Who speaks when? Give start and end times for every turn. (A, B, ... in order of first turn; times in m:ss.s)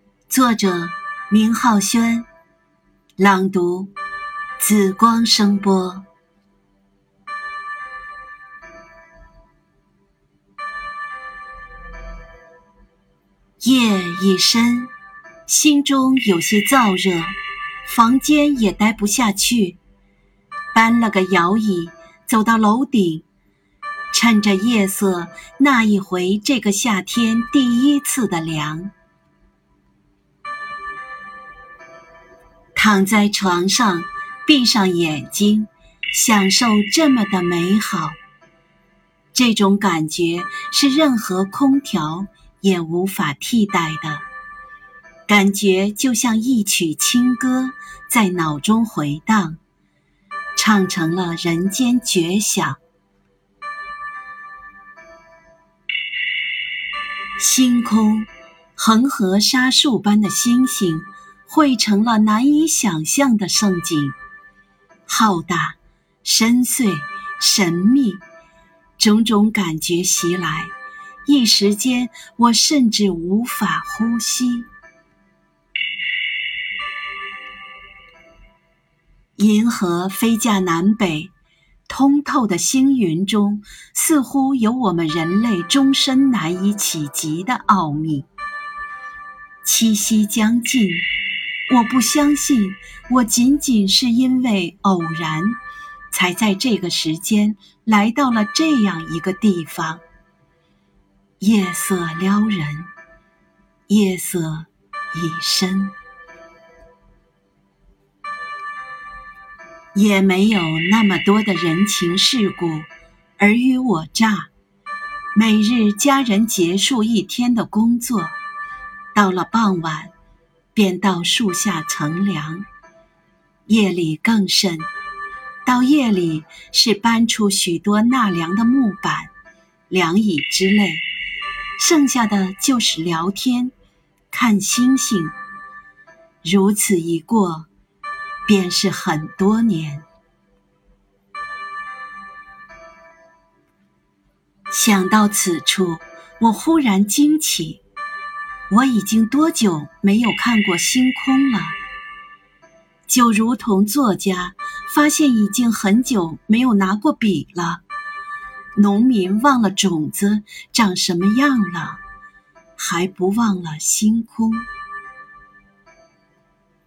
0:00.3-0:02.3 A
0:03.2-0:03.9 A
0:04.6-0:06.0 A
0:13.6-0:14.9 A
0:15.5-0:19.8 A
0:20.7-0:23.2 A
0:24.1-0:28.9 A
0:32.8-0:38.2 A
0:39.3-0:44.2 A
0:45.3-0:49.6 A
0:50.6-0:52.8 A
0:57.4-1:04.2 A
1:05.1-1:08.2 A
1:09.0-1:10.7 A
1:11.3-1:14.7 A
1:19.4-1:21.3 A
1:21.9-1:28.3 A
1:29.6-1:31.1 A
1:31.7-1:35.6 A
1:36.1-1:40.0 A
1:41.4-1:42.9 A
1:43.9-1:46.0 A
1:49.9-1:54.5 A
1:55.3-1:58.4 A
1:59.2-2:00.1 A
2:00.7-2:02.7 A
2:03.7-2:04.9 A
2:05.6-2:09.3 A
2:09.9-2:11.0 A
2:11.8-2:13.7 A
2:14.3-2:15.3 A
2:16.4-2:17.7 A
2:18.4-2:20.0 A
2:24.7-2:27.8 A
2:28.7-2:31.8 A
2:33.1-2:37.8 A
2:38.8-2:42.0 A
2:42.8-2:44.7 A